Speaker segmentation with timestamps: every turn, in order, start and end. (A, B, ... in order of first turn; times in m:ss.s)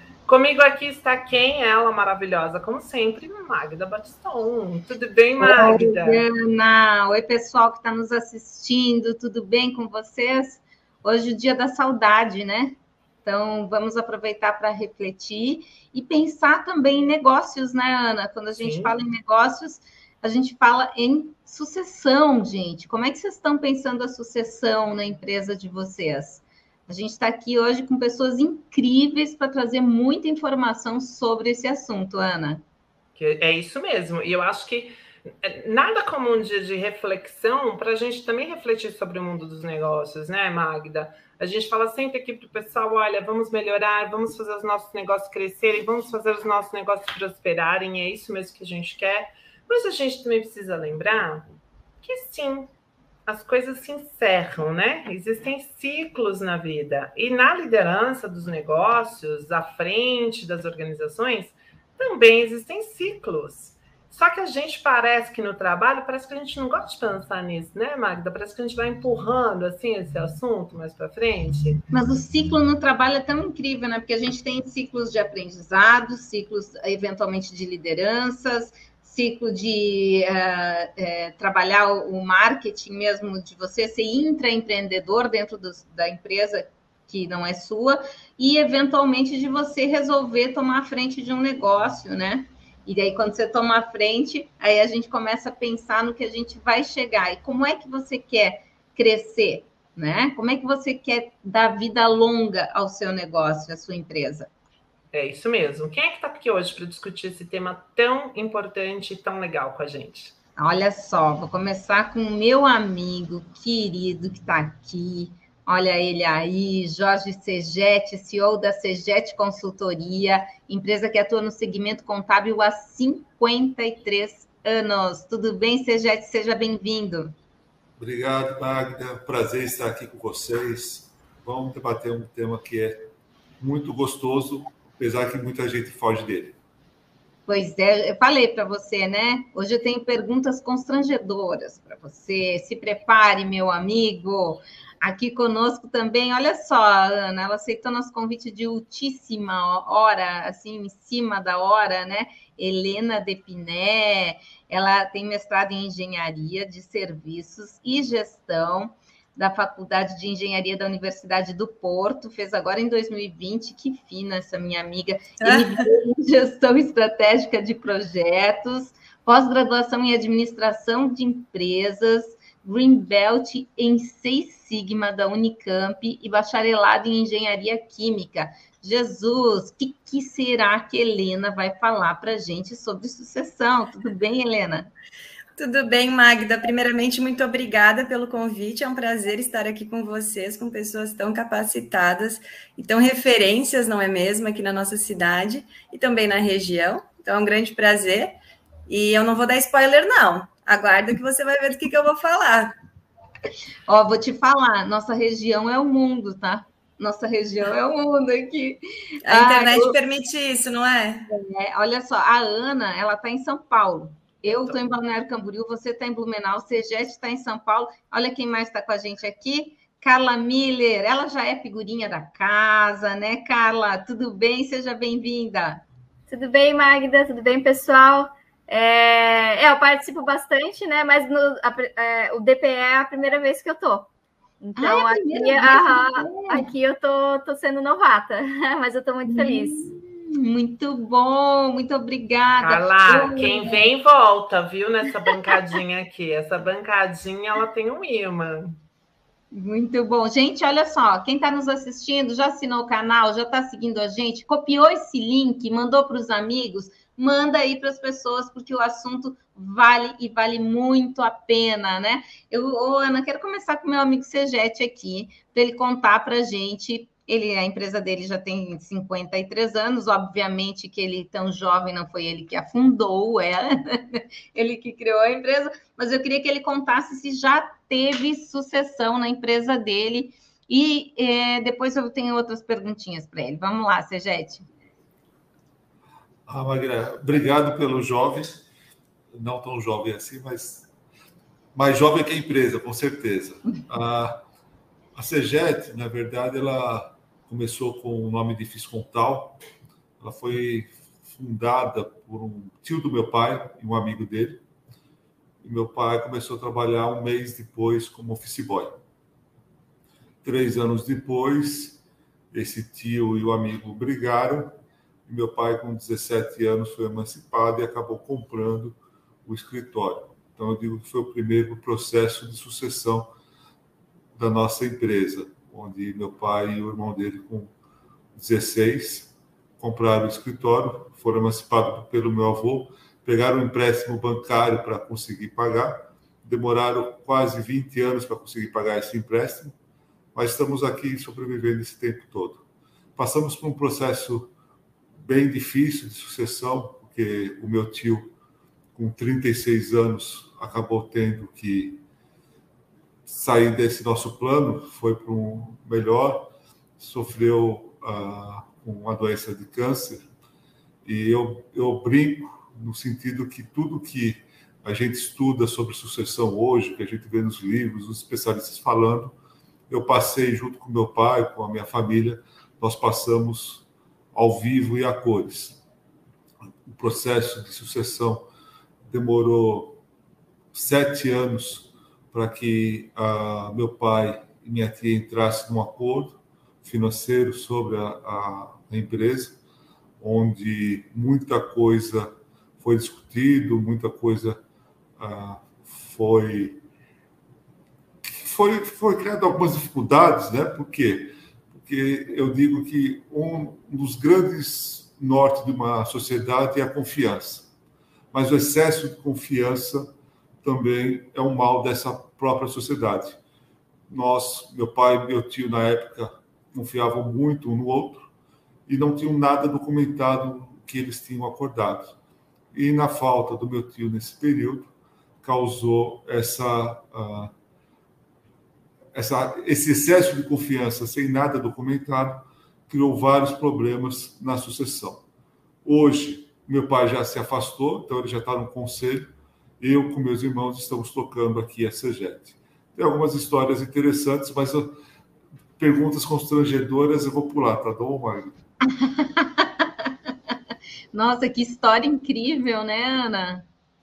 0:00.2-0:06.2 A
0:05.4-0:32.6 B
0:18.6-0:19.0 A
0:33.2-0:51.5 A
0:52.0-0:52.7 A
0:53.2-1:11.8 A
1:11.9-1:44.5 B
1:45.1-1:50.3 A
1:50.6-2:07.3 B
2:08.0-2:13.1 C
2:13.6-2:16.6 C
2:17.5-3:04.9 B
2:45.4-2:45.8 D
3:05.6-3:18.4 D
3:18.9-3:22.7 D
3:23.9-3:30.0 B
3:29.2-3:31.3 D
3:31.3-3:45.8 B
3:34.5-3:34.7 A
3:46.3-3:59.9 E
3:54.8-3:56.7 B
3:59.3-4:03.8 B
4:02.6-4:08.8 A
4:09.5-4:44.7 B
4:46.5-4:48.6 C
4:49.3-4:50.9 C
4:51.7-4:54.4 C
4:55.1-4:59.6 C
5:00.2-5:04.6 C
5:05.6-5:09.0 C
5:10.4-5:12.0 C
5:12.5-5:23.3 C
5:24.4-5:27.7 C
5:28.4-5:39.7 C
5:40.3-5:42.6 C
5:43.2-5:44.5 C
5:45.2-5:48.3 C
5:48.9-5:52.0 C
5:53.3-6:00.2 C
6:01.0-6:09.3 C
6:09.9-6:15.8 C
6:16.8-6:18.5 C
6:19.1-6:20.0 C
6:20.7-6:29.6 C
6:30.2-6:34.6 C
6:35.2-6:36.8 C
6:38.2-6:47.7 C
6:48.3-6:50.1 C
6:50.6-6:53.4 C
6:54.1-6:58.3 C
6:58.9-7:02.1 C
7:02.7-7:04.9 C
7:05.4-7:07.5 C
7:09.1-7:15.2 C
7:15.8-7:24.9 C
7:25.8-7:28.6 C
7:28.9-7:30.1 B
7:31.1-7:33.6 B